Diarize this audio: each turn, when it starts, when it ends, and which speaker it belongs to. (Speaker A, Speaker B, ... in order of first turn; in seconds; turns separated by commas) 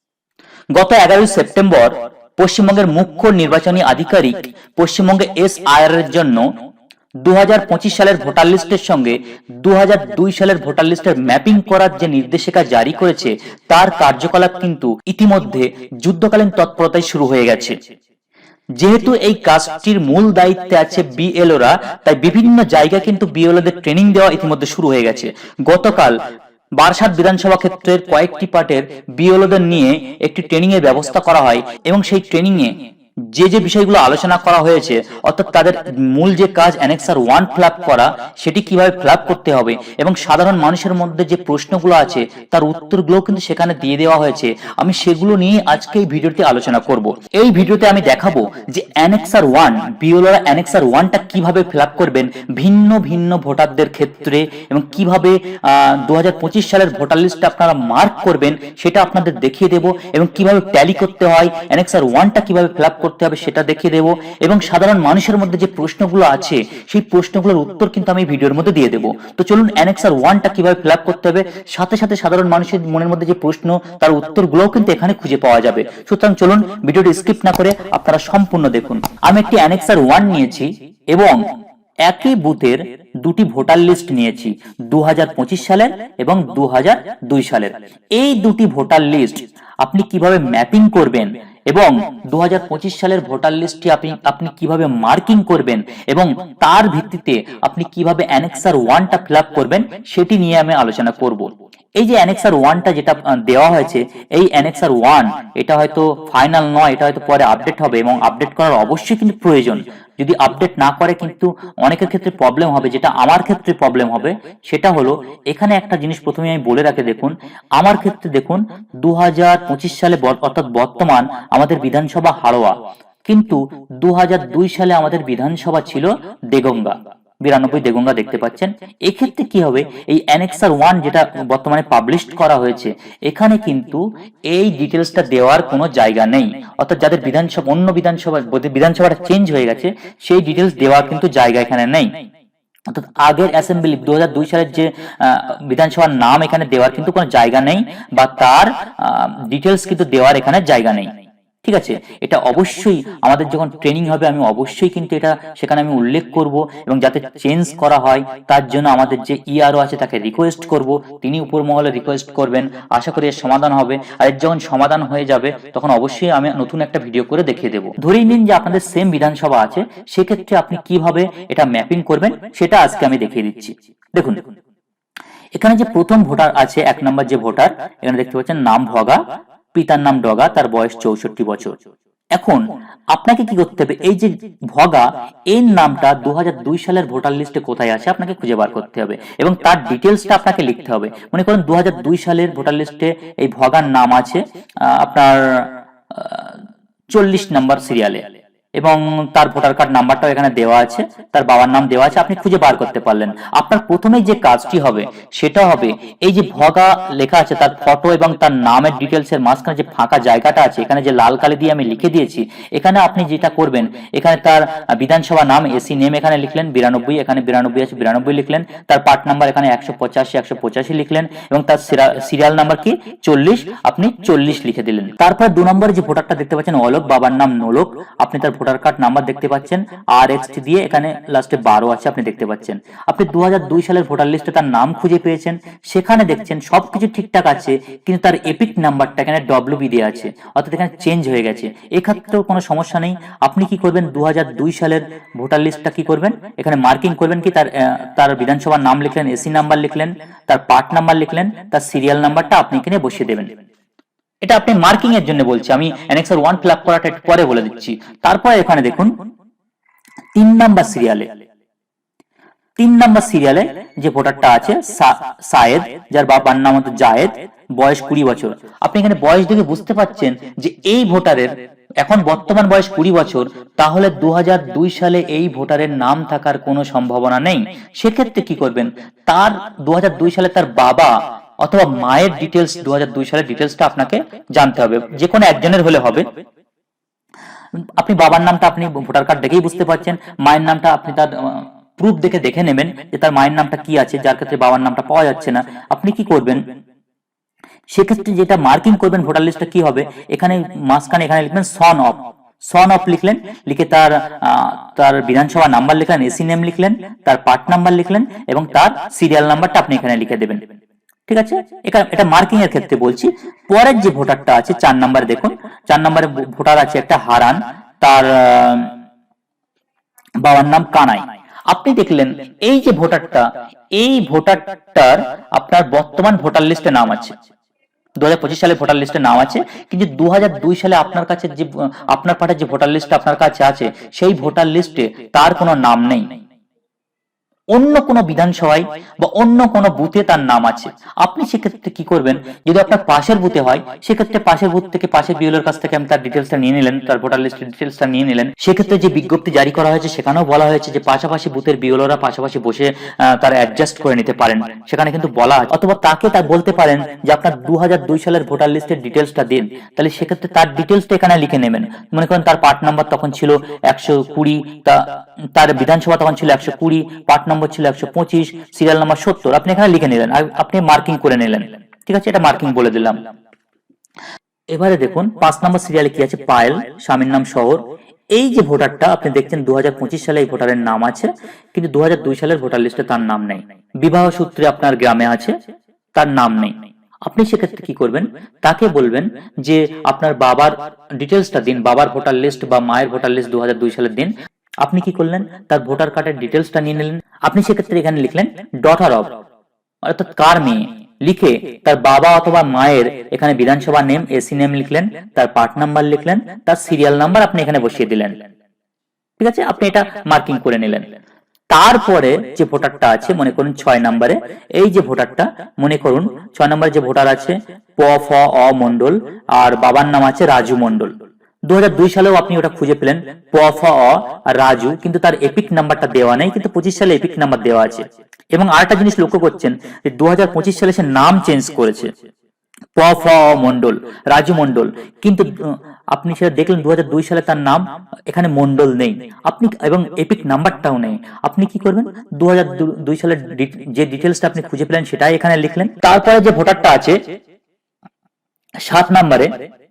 Speaker A: 0.7-6.5, Speaker A: 7.2-17.8, Speaker A: 18.8-26.2, Speaker A: 26.8-32.7, Speaker A: 33.3-81.4, Speaker A: 82.0-122.7, Speaker A: 123.2-142.1, Speaker A: 142.9-151.1, Speaker A: 151.6-174.4, Speaker A: 175.6-179.2, Speaker A: 179.7-181.8, Speaker A: 182.3-198.2, Speaker A: 198.8-253.6, Speaker A: 254.4-259.1, Speaker A: 260.3-261.3, Speaker A: 262.8-286.3, Speaker A: 288.0-296.6, Speaker A: 297.9-310.6, Speaker A: 311.3-318.9, Speaker A: 320.4-327.4, Speaker A: 328.2-336.4, Speaker A: 337.7-373.2, Speaker A: 374.7-385.6, Speaker A: 386.1-399.4, Speaker A: 400.0-408.4, Speaker A: 409.4-411.1, Speaker A: 411.7-421.1, Speaker A: 421.7-432.1, Speaker A: 432.9-447.2, Speaker A: 448.8-449.5